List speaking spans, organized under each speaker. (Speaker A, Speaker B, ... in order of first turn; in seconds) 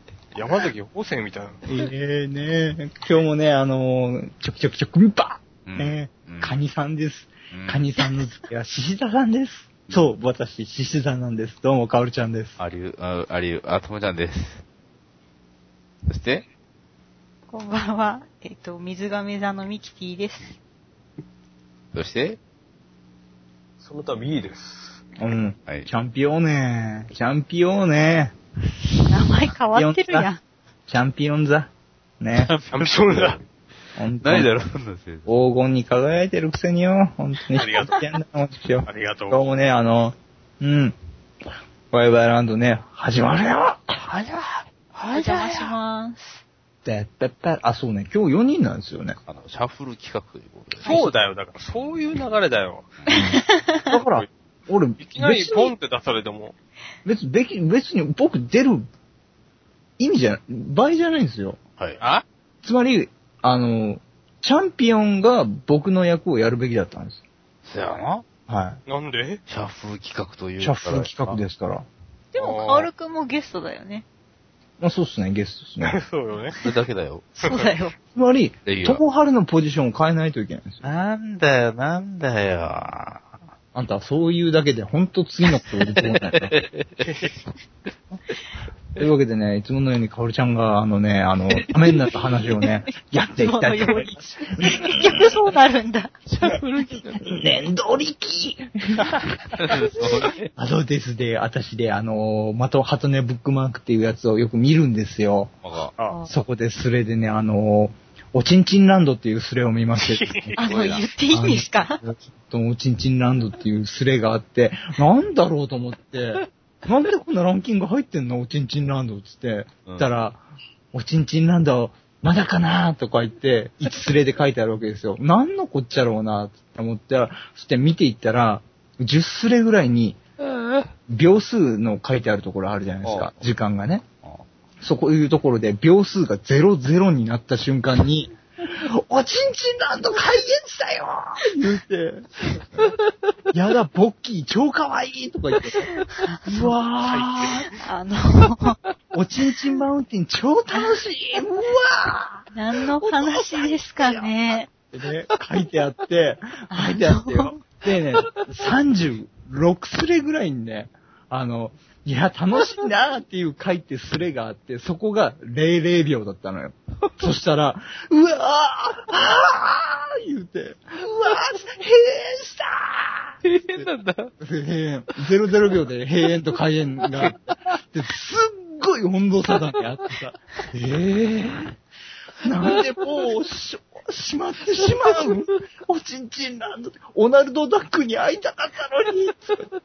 Speaker A: 0.3-1.6, 23.8-25.0, 32.7-33.4, 37.6-38.0, 38.9-39.4, 50.8-52.9, 55.0-56.5, 68.8-69.4, 72.4-72.9, 75.8-76.6, 77.4-77.7, 87.0-87.3, 110.0-110.5
Speaker B: 1.7-12.6, 25.2-28.3, 29.7-30.3, 30.9-32.5, 34.0-34.5, 35.2-40.9, 41.9-44.0, 46.8-49.2, 53.1-55.7, 57.0-58.9, 60.0-61.6, 62.6-67.2, 68.5-68.8, 70.6-71.9, 74.8-76.0, 78.1-80.8, 83.7-86.6, 88.9-95.3, 97.2-99.2, 100.0-105.5, 106.2-110.6, 111.3-120.4, 120.9-130.2, 131.1-134.0, 134.8-142.4, 143.5-145.9, 146.5-147.7, 149.1-173.9, 174.4-181.6, 182.4-189.7
Speaker C: 5.7-6.5, 7.5-7.8, 12.6-14.6, 16.1-16.4, 21.9-22.4, 32.3-33.4, 34.2-35.3, 44.0-45.8, 49.2-50.9, 61.8-62.0, 67.7-68.2, 69.5-71.4, 76.6-77.3, 78.7-79.0, 80.8-83.2, 86.0-87.1, 96.3-97.3, 99.6-100.5, 105.6-105.9, 110.6-111.1, 119.8-120.1, 130.5-130.8, 133.0-133.4, 173.4-174.3, 177.2-177.5, 181.1-181.5
Speaker D: 17.5-20.6, 29.1-30.4, 45.1-46.4, 50.8-51.1, 53.1-53.9, 72.3-74.0, 77.4-77.9, 93.4-96.1, 106.1-106.3, 110.5-112.0, 146.2-146.7, 147.7-148.8, 152.5-154.7, 156.7-157.6